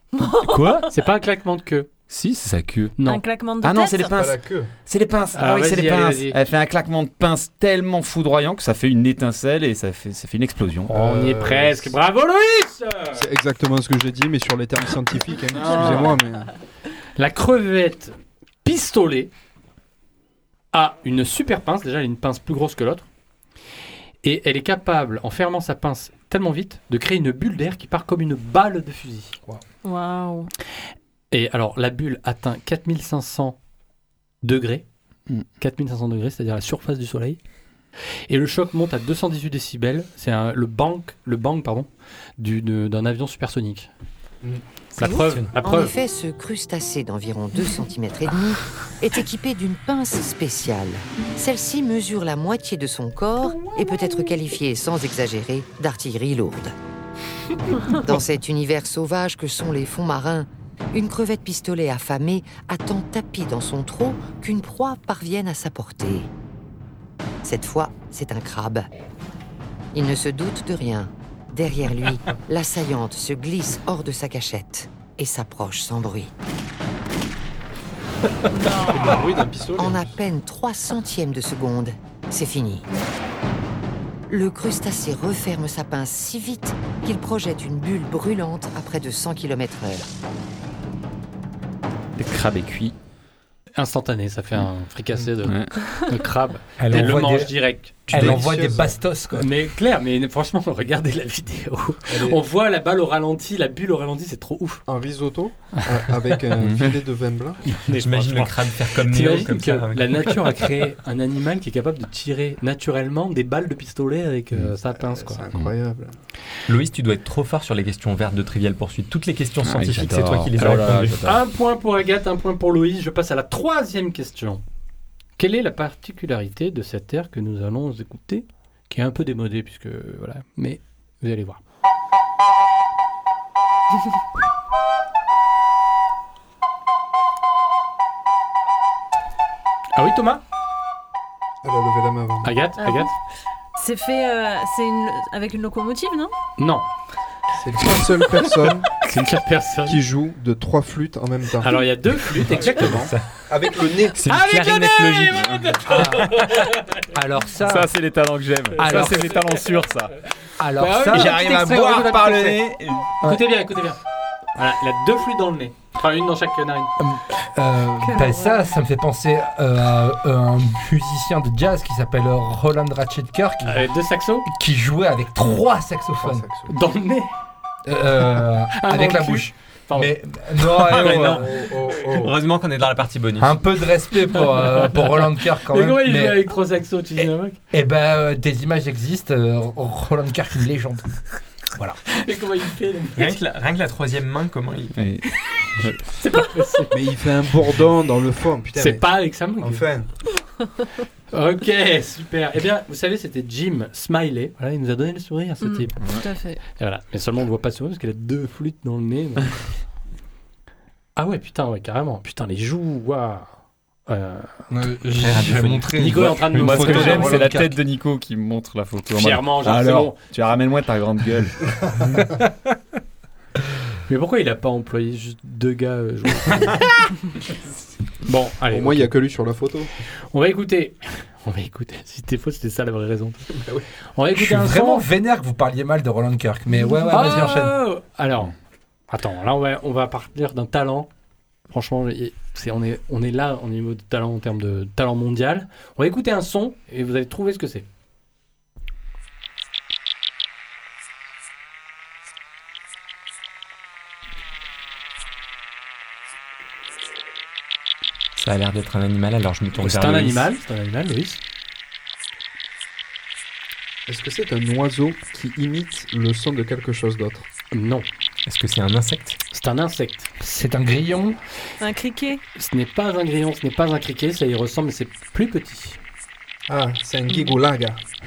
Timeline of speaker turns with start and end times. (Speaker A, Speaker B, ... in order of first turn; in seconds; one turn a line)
Speaker A: 0.2-0.8
Speaker B: 0.4-0.8
Speaker C: 0.7-1.9
Speaker B: 2.1-3.0
Speaker C: 3.0-3.2
Speaker A: 3.0-4.1
Speaker B: 3.6-11.0
Speaker D: 4.1-4.7
Speaker C: 5.3-6.4
Speaker C: 10.8-13.3
Speaker D: 10.9-11.9
Speaker D: 13.1-16.5
Speaker C: 15.5-16.2
Speaker C: 17.1-19.3
Speaker C: 20.7-23.1
Speaker C: 24.2-29.4
Speaker A: 29.8-30.5
Speaker C: 31.3-33.6
Speaker C: 34.4-34.9
Speaker C: 35.6-37.4
Speaker C: 38.3-43.9
Speaker C: 44.9-45.9
Speaker E: 45.6-56.7
Speaker E: 58.0-66.3
Speaker E: 67.4-68.9
Speaker E: 69.9-76.3
Speaker A: 78.5-79.2
Speaker D: 78.8-79.9
Speaker E: 79.8-82.8
Speaker E: 84.3-90.1
Speaker B: 92.2-93.0
Speaker C: 93.7-98.4
Speaker B: 95.4-95.7
Speaker F: 96.8-99.5
Speaker D: 98.1-99.0
Speaker C: 99.3-104.8
Speaker D: 102.1-102.4
Speaker D: 104.9-107.6
Speaker B: 106.5-107.0
Speaker C: 107.7-115.5
Speaker G: 107.9-110.5
Speaker B: 114.5-114.8
Speaker D: 114.8-116.1
Speaker G: 116.7-121.2
Speaker B: 119.6-121.4
Speaker C: 120.6-124.6
Speaker C: 125.4-131.6
Speaker C: 139.9-140.4
Speaker D: 141.6-142.5
Speaker C: 142.4-143.1
Speaker A: 142.8-143.1
Speaker A: 143.7-146.3
Speaker C: 146.6-146.8
Speaker D: 147.6-148.9
Speaker C: 149.0-150.0
Speaker D: 149.8-151.9
Speaker C: 151.6-153.1
Speaker D: 152.7-154.2
Speaker G: 152.8-153.2
Speaker B: 154.2-155.8
Speaker C: 154.2-156.8
Speaker G: 154.3-156.2
Speaker F: 155.9-156.3
Speaker F: 157.1-157.9
Speaker B: 157.6-160.2
Speaker F: 158.8-159.2
Speaker F: 160.6-161.4
Speaker C: 160.8-162.7
Speaker B: 161.1-163.2
Speaker C: 163.2-164.0
Speaker C: 164.6-166.9
Speaker F: 167.0-173.9
Speaker A: 168.0-168.7
Speaker C: 173.6-174.5
Speaker F: 174.5-176.4
Speaker D: 176.2-176.7
Speaker C: 176.7-177.3
Speaker F: 177.8-181.6
Speaker C: 178.8-180.2
Speaker D: 180.8-182.4
Speaker G: 180.8-183.6
Speaker F: 183.4-186.4
Speaker C: 185.6-187.6
Speaker F: 187.7-191.0
Speaker C: 191.8-193.3
Speaker G: 193.2-194.9
Speaker B: 194.9-196.1
Speaker C: 196.1-196.9
Speaker D: 196.9-199.0
Speaker C: 198.7-199.8
Speaker D: 199.6-200.1
Speaker C: 201.3-206.1
Speaker A: 205.6-206.6
Speaker B: 206.0-206.2
Speaker C: 206.7-209.6
Speaker C: 211.2-214.7
Speaker F: 214.7-217.8
Speaker G: 215.2-215.9
Speaker C: 215.9-217.4
Speaker B: 216.4-222.2
Speaker D: 216.8-217.2
Speaker C: 219.2-220.2
Speaker F: 222.1-222.4
Speaker C: 224.1-226.8
Speaker C: 228.2-229.1
Speaker D: 228.7-229.9
Speaker C: 230.3-235.1
Speaker F: 234.3-237.8
Speaker C: 237.1-238.5
Speaker C: 239.1-241.1
Speaker C: 241.7-247.8
Speaker G: 258.4-260.5
Speaker C: 259.8-261.4
Speaker D: 264.1-267.4
Speaker C: 267.7-268.1
Speaker G: 268.4-269.4
Speaker C: 269.5-270.3
Speaker F: 270.4-271.4
Speaker A: 271.8-272.4
Speaker C: 272.6-276.0
Speaker D: 276.7-278.0
Speaker A: 277.3-277.6